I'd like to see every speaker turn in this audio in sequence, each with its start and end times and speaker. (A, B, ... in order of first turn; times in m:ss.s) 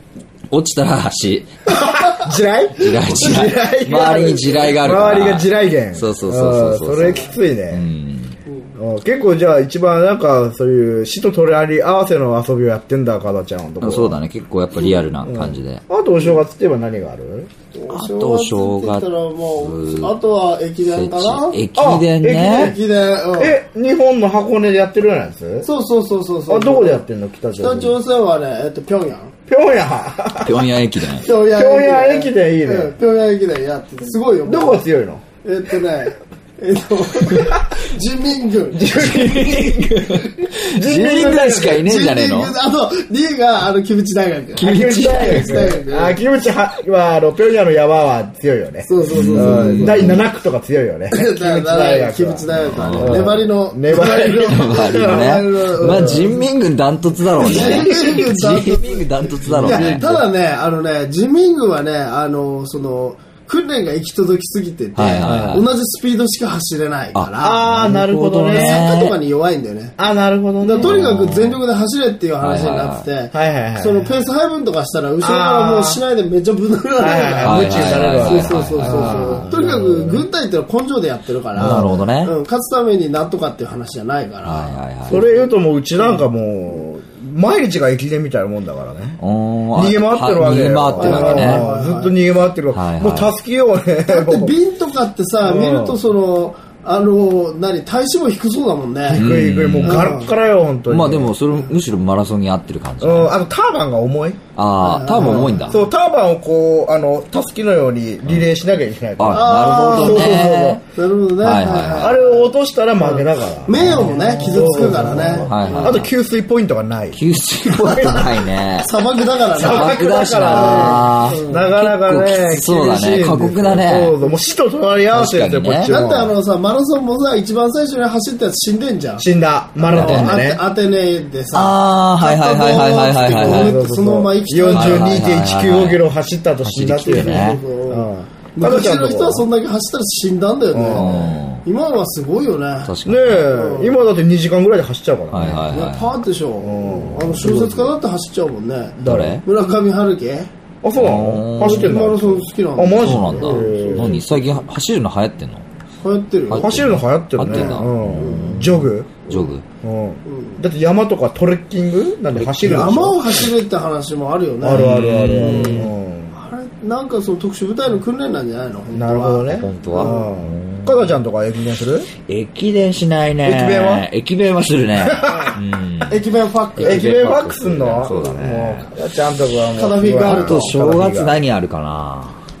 0:00.5-0:01.6 A
0:01.7-0:07.8 B
0:01.8-0:02.2 C
0:02.8-0:08.4 A
0:08.5-0:08.7 C
0:08.8-0:14.2 B
0:13.8-0:15.8 A
0:15.2-0:17.5 B
0:17.7-0:21.6 C
0:17.9-0:20.2 A
0:20.8-0:22.7 A
0:21.7-0:22.8 B
0:22.4-0:23.5 C
0:23.4-0:25.7 B
0:25.6-0:27.0 C
0:26.5-0:28.0 B
0:27.5-0:29.3 C
0:29.5-0:30.7 B
0:30.4-0:31.3 A
0:31.2-0:34.8 C
0:31.4-0:32.9 B
0:34.4-0:35.2 B
0:35.4-0:39.2 C
0:37.3-0:37.6 B
0:38.7-0:41.8 B
0:38.9-0:42.5 A
0:41.3-0:46.2 C
0:44.6-0:45.7 A
0:44.6-0:56.3 B
0:48.8-0:50.2 C
0:49.1-0:50.2 A
0:51.1-0:56.4 C
0:52.5-0:53.4 A
0:54.4-1:00.2 A
0:57.4-0:58.2 B
0:57.4-1:07.6 C
0:59.5-1:00.1 B
1:05.0-1:05.7 A
1:05.2-1:05.6 B
1:07.1-1:09.1 A
1:07.4-1:08.9 B
1:08.5-1:10.0 C
1:10.0-1:11.0 B
1:10.6-1:26.2 C
1:10.8-1:11.6 A
1:12.4-1:13.0 A
1:13.3-1:14.1 B
1:15.2-1:16.0 B
1:17.0-1:20.2 B
1:17.4-1:19.5 A
1:21.6-1:22.3 A
1:21.6-1:22.0 B
1:24.4-1:25.2 A
1:25.1-1:29.2 B
1:29.2-1:31.6 A
1:29.7-1:34.5 B
1:31.0-1:32.1 C
1:32.7-1:33.3 A
1:34.1-1:39.2 C
1:35.4-1:36.0 B
1:39.1-1:41.3 B
1:39.1-1:40.1 A
1:39.8-1:40.3 C
1:40.9-1:43.3 A
1:43.0-1:44.4 B
1:44.5-1:45.8 A
1:44.8-1:45.8 C
1:45.2-1:50.8 B
1:49.2-1:50.8 A
1:49.3-1:56.0 C
1:51.4-1:52.2 A
1:52.0-1:58.4 B
1:53.8-1:56.1 A
1:57.1-1:58.9 A
1:58.8-2:01.7 C
1:59.5-2:04.2 A
1:59.5-2:06.3 B
2:05.1-2:05.9 A
2:05.8-2:09.2 C
2:09.2-2:10.6 B
2:09.8-2:15.2 C
2:09.9-2:10.4 A
2:11.5-2:13.8 A
2:13.3-2:19.5 B
2:14.7-2:16.0 A
2:16.6-2:17.6 A
2:17.0-2:22.9 C
2:20.7-2:21.2 B
2:20.9-2:21.6 A
2:22.8-2:23.5 A
2:23.0-2:25.7 B
2:23.5-2:24.0 C
2:25.3-2:26.2 A
2:25.7-2:30.5 C
2:26.6-2:27.9 B
2:29.0-2:29.4 B
2:29.0-2:29.4 A
2:30.8-2:34.3 B
2:31.0-2:32.0 A
2:31.6-2:34.6 C
2:33.0-2:35.6 A
2:36.0-2:36.8 C
2:36.5-2:39.6 A
2:36.5-2:39.2 B
2:37.4-2:38.6 C
2:39.3-2:39.5 C
2:39.8-2:43.5 B
2:40.2-2:40.6 C
2:42.4-2:42.9 A
2:42.6-2:50.3 C
2:44.6-2:46.4 B
2:44.7-2:45.9 A
2:48.9-2:52.1 B
2:49.5-2:51.2 A
2:52.2-2:56.2 A
2:53.4-2:54.0 B
2:55.0-2:55.6 B
2:55.2-2:57.2 C
2:56.8-2:58.9 A
2:56.8-3:01.4 B
2:58.0-2:58.5 C
2:59.7-3:00.8 C
3:00.2-3:02.4 A